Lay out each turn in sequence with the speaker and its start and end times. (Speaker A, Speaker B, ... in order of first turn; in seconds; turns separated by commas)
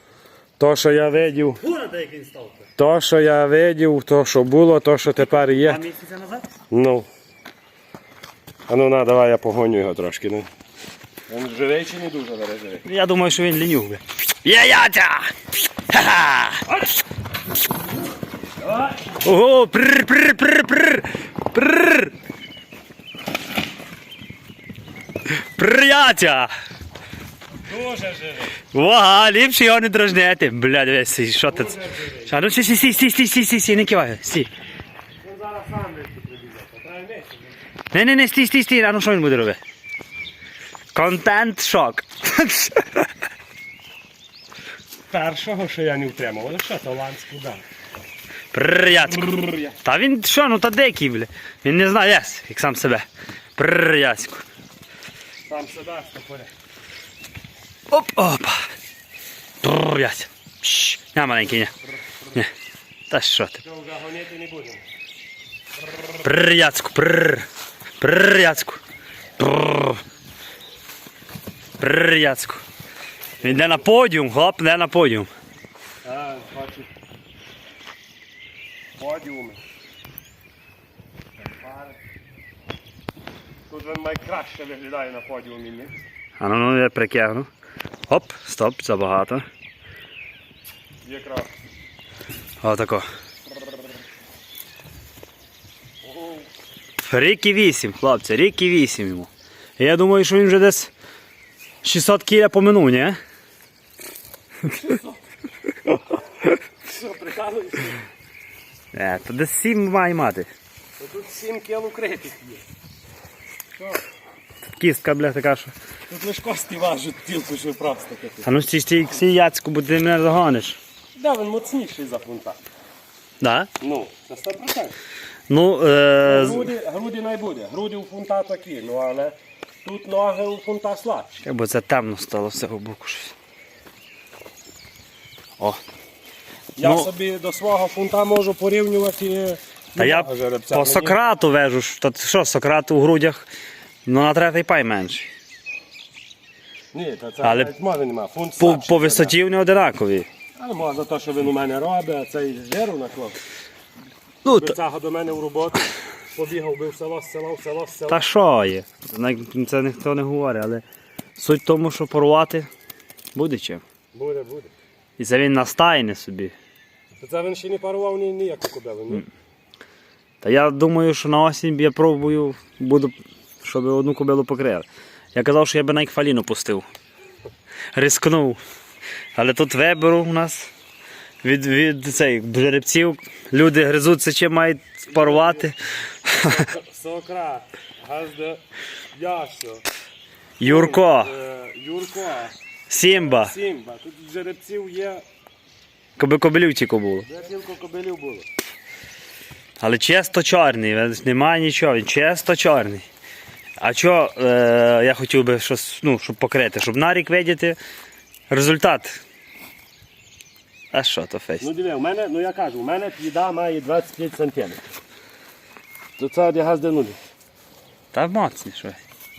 Speaker A: 0.6-1.6, Speaker B: 1.6-2.7, Speaker A: 2.8-5.8, Speaker B: 5.2-6.5, Speaker A: 6.7-7.1, Speaker A: 8.7-10.5, Speaker A: 11.3-12.8, Speaker B: 12.8-16.9, Speaker B: 19.2-22.1, Speaker B: 25.3-26.5, Speaker A: 27.6-28.6, Speaker B: 28.7-34.5, Speaker A: 31.5-32.3, Speaker A: 35.2-37.5, Speaker B: 37.9-39.6, Speaker B: 40.9-43.1, Speaker A: 45.1-47.6, Speaker B: 48.5-54.5, Speaker A: 49.2-49.7, Speaker A: 55.5-56.5, Speaker B: 57.9-58.7, Speaker B: 59.6-61.7, Speaker B: 63.1-63.6, Speaker A: 63.6-64.8, Speaker B: 66.2-67.5, Speaker B: 68.0-68.8, Speaker B: 69.4-70.0, Speaker B: 71.8-72.6, Speaker B: 73.4-75.3, Speaker A: 73.4-73.8, Speaker A: 76.0-76.9, Speaker A: 79.0-79.6, Speaker A: 83.7-86.0, Speaker B: 86.4-87.5, Speaker B: 88.1-89.5, Speaker A: 91.0-91.5, Speaker B: 92.6-93.1, Speaker A: 96.0-96.5, Speaker B: 97.0-100.9, Speaker B: 101.8-103.2, Speaker A: 104.6-105.2, Speaker A: 106.8-108.0, Speaker B: 108.9-110.5, Speaker A: 111.0-112.6, Speaker A: 113.8-114.0, Speaker B: 114.8-115.7, Speaker A: 116.1-118.5, Speaker B: 118.4-120.8, Speaker A: 121.2-122.6, Speaker B: 123.4-123.7, Speaker A: 123.8-125.0, Speaker B: 125.5-126.7, Speaker A: 126.2-131.4, Speaker B: 131.4-133.3, Speaker A: 136.8-141.2, Speaker B: 136.8-137.1, Speaker B: 140.0-143.5, Speaker B: 144.1-145.3, Speaker A: 146.9-149.3, Speaker B: 147.4-147.7, Speaker B: 148.6-150.3, Speaker A: 150.6-153.4, Speaker B: 154.4-154.8, Speaker A: 154.5-158.2, Speaker B: 158.1-160.8, Speaker B: 161.4-162.7, Speaker B: 163.3-163.8, Speaker A: 164.1-164.7, Speaker B: 165.2-166.6, Speaker A: 167.2-169.3, Speaker B: 170.4-176.9, Speaker B: 177.9-178.6, Speaker B: 179.3-180.7, Speaker B: 181.4-186.7, Speaker A: 185.1-185.7, Speaker A: 186.3-188.6, Speaker A: 189.1-189.8, Speaker B: 190.6-191.3, Speaker A: 190.6-192.5, Speaker B: 192.9-193.5, Speaker A: 193.1-195.2, Speaker B: 196.2-197.3, Speaker A: 197.3-198.5, Speaker B: 199.8-203.1, Speaker B: 203.8-207.8, Speaker B: 208.5-209.2, Speaker B: 210.9-211.7, Speaker A: 211.6-214.8, Speaker A: 216.2-217.2, Speaker B: 218.1-219.0